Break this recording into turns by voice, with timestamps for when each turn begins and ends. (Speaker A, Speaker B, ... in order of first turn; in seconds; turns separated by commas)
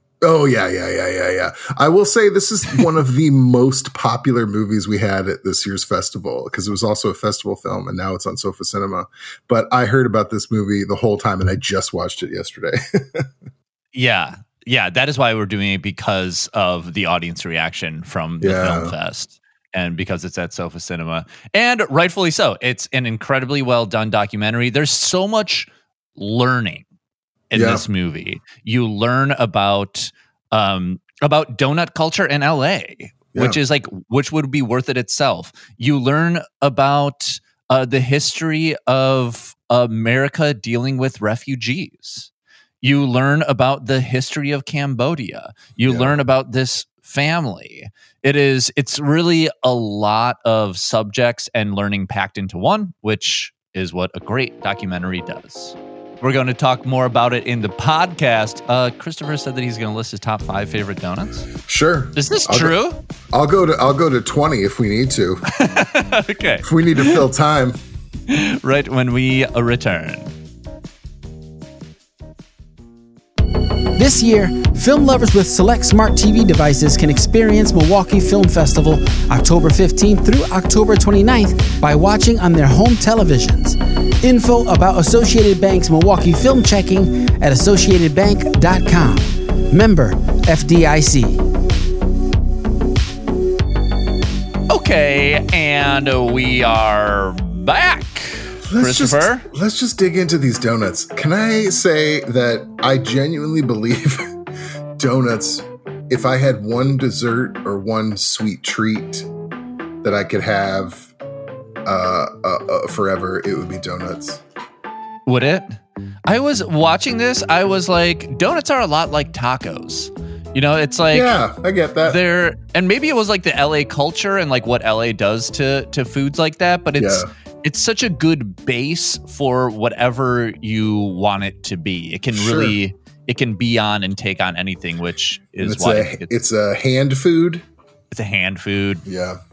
Speaker A: 0.2-13.3, Speaker B: 13.9-26.9, Speaker A: 18.4-18.9, Speaker B: 27.5-42.3, Speaker A: 27.5-27.8, Speaker B: 42.8-61.5, Speaker A: 45.9-46.1, Speaker A: 61.6-62.7, Speaker B: 62.1-63.0, Speaker A: 63.3-65.4, Speaker B: 65.5-67.2, Speaker A: 66.6-67.8, Speaker B: 68.3-70.3, Speaker C: 74.0-91.4, Speaker B: 94.7-99.5, Speaker A: 98.7-104.3, Speaker A: 105.0-109.3, Speaker A: 110.0-111.1, Speaker A: 111.8-114.4, Speaker B: 115.2-115.8, Speaker B: 116.3-121.3, Speaker A: 121.1-122.2, Speaker B: 122.0-136.3, Speaker A: 127.0-127.3, Speaker A: 132.3-132.8, Speaker A: 135.6-137.7, Speaker B: 138.1-139.0, Speaker A: 139.0-139.4